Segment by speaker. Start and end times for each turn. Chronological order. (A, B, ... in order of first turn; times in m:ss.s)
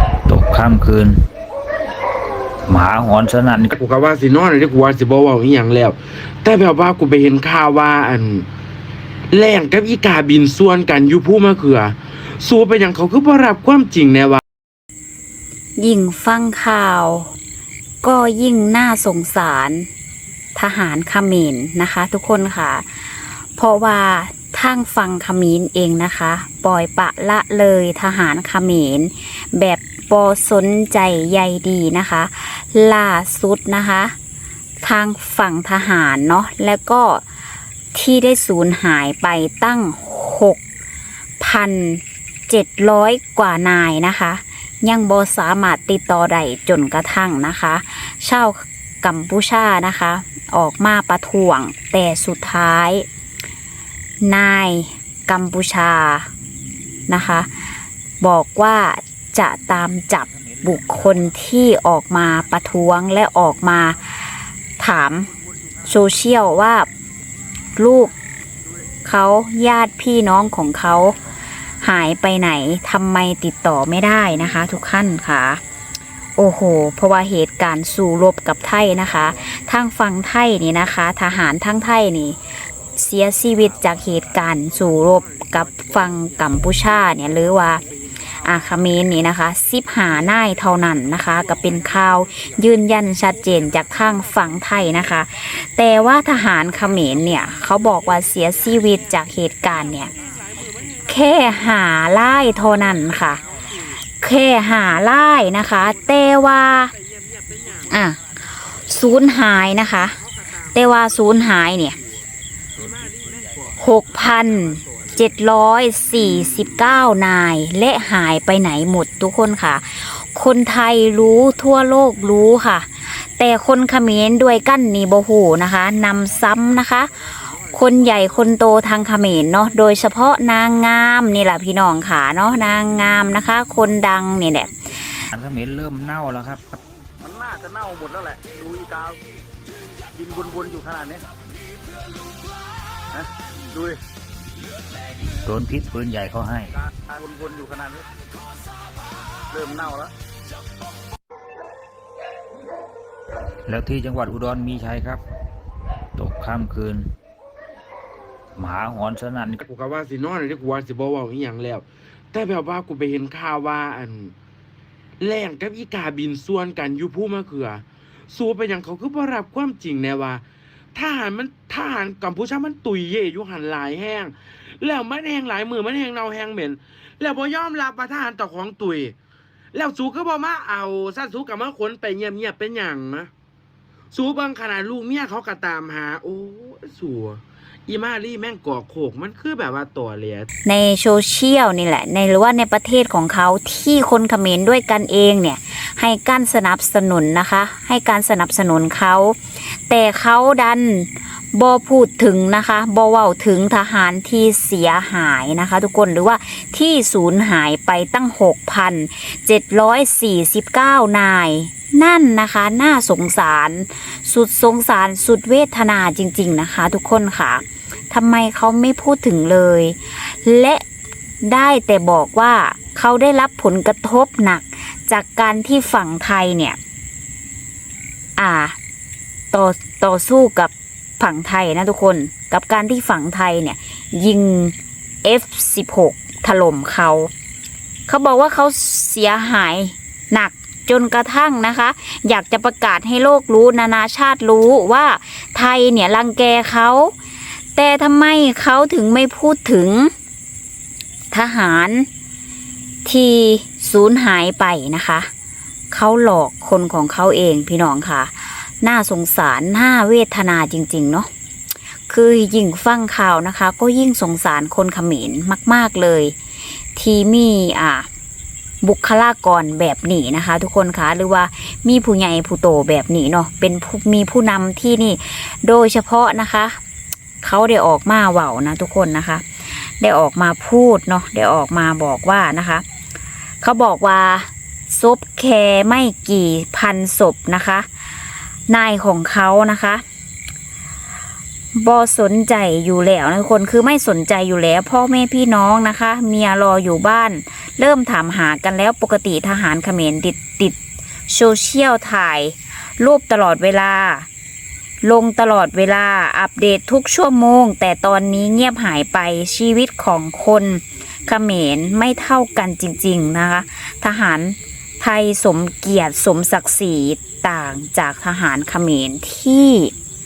0:00.2-0:01.2 A
0:02.7-0:03.7 A
0:03.7-0:08.5 B
0:09.3-0:14.4 B
0:15.8-0:17.3 C
0:18.0-0:19.9 C
0:20.5-0:34.1 C
0:34.8-0:37.2 C
0:37.9-0:40.6 C
0:41.4-0:53.0 C
0:54.2-0:56.3 C
0:57.1-0:57.5 C
0:58.2-1:05.3 C
1:05.8-1:06.9 C
1:07.8-1:08.1 C
1:09.0-1:11.2 C
1:11.8-1:15.6 C
1:16.4-1:22.4 C
1:23.0-1:27.8 C
1:28.4-1:40.1 C
1:41.1-1:43.4 C
1:44.2-1:46.9 C
1:47.9-1:50.2 C
1:50.7-1:52.0 C
1:53.0-1:53.4 B
1:53.8-2:07.1 C
2:07.7-2:15.1 C
2:15.3-2:16.8 A
2:17.2-2:19.2 D
2:20.2-2:21.2 D
2:23.2-2:24.0 D
2:25.4-2:26.7 A
2:27.1-2:28.0 D
2:29.5-2:30.1 D
2:33.7-2:35.2 A
2:36.2-2:37.0 A
2:38.6-2:39.6 A
2:39.6-2:44.3 B
2:45.2-2:50.4 B
2:50.9-2:59.1 B
2:59.7-3:03.3 B
3:04.1-3:10.5 B
3:10.6-3:40.8 C
3:41.4-3:46.8 C
3:48.4-3:48.8 C
3:49.5-3:57.3 C
3:58.1-4:07.1 C
4:07.8-4:10.1 C
4:11.3-4:12.1 C
4:13.0-4:15.3 C
4:15.9-4:21.3 C
4:22.1-4:26.3 C
4:27.0-4:28.1 C
4:28.8-4:36.8 C
4:37.4-4:39.4 C
4:40.0-4:42.8 C
4:43.6-4:47.8 C
4:48.7-4:50.0 C
4:51.8-5:00.8 C
5:01.3-5:04.3 C
5:05.0-5:19.9 C